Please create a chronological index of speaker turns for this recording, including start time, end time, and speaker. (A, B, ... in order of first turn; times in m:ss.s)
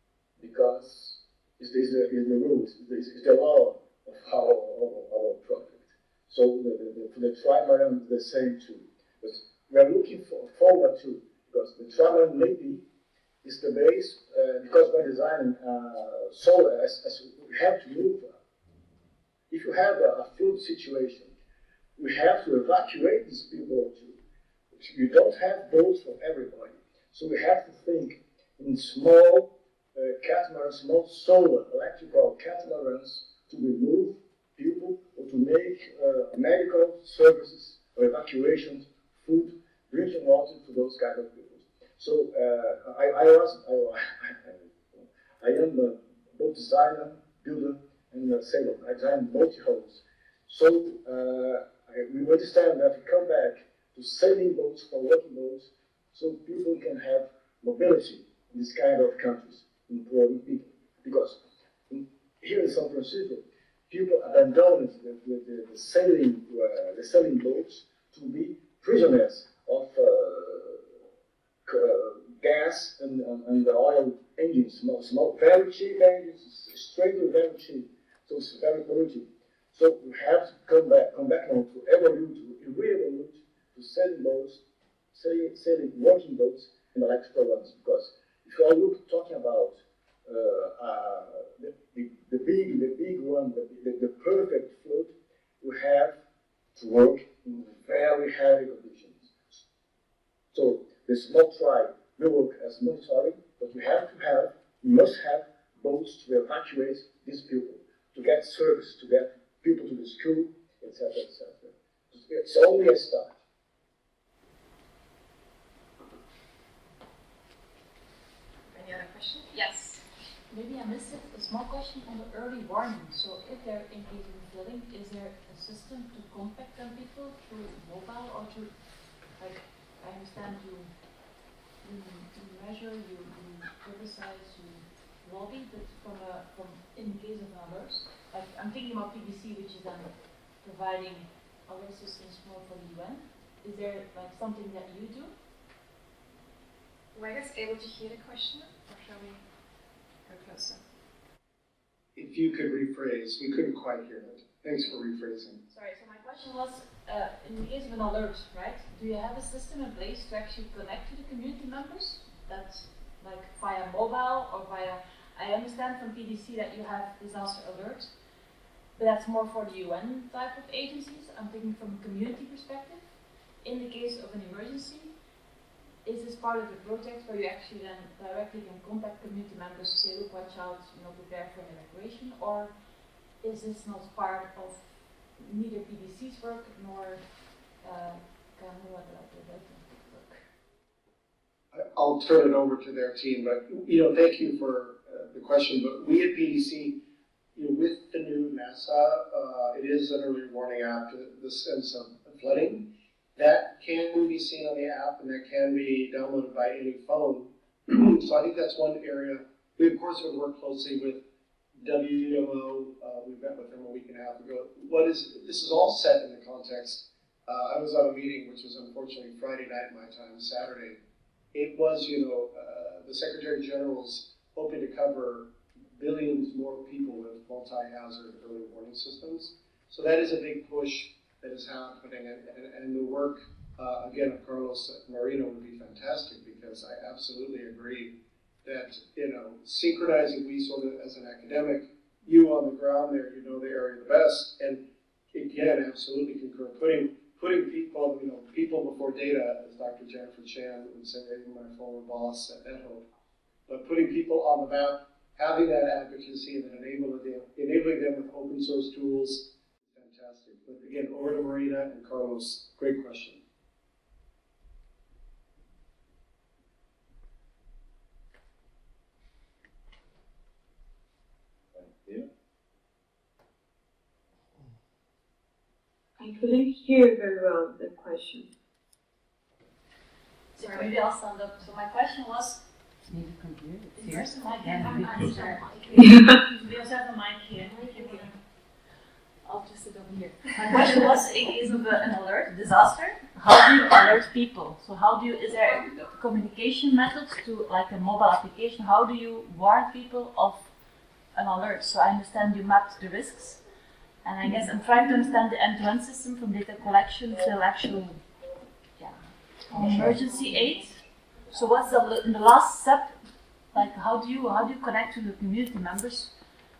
0:00.4-0:12.8 A
0:13.4-0:18.3 A
0:19.5-0:21.3 A
0:22.0-0:24.2 A
0:24.7-1:10.8 A
1:11.6-1:24.6 A
1:25.1-1:36.2 A
1:36.7-1:39.6 A
1:40.5-1:53.4 A
1:58.7-2:00.0 B
2:00.5-2:08.8 C
2:09.4-2:10.9 C
2:11.8-2:25.3 C
2:27.1-2:29.4 B
2:30.2-2:30.8 B
2:32.1-2:35.6 D
2:35.7-2:48.2 C
2:48.9-2:55.2 C
2:56.0-3:02.8 C
3:03.4-3:10.4 C
3:11.7-3:17.0 D
3:17.5-3:31.2 D
3:31.8-3:41.0 D
3:41.5-4:13.0 D
4:13.7-4:23.4 D
4:31.7-4:32.2 A
4:36.2-4:38.5 E
4:40.6-4:42.6 C
4:43.0-4:45.8 F
4:43.9-4:48.4 C
4:49.4-5:00.7 C
5:01.3-5:03.6 C
5:04.2-5:08.2 C
5:09.0-5:13.2 C
5:13.7-5:16.3 C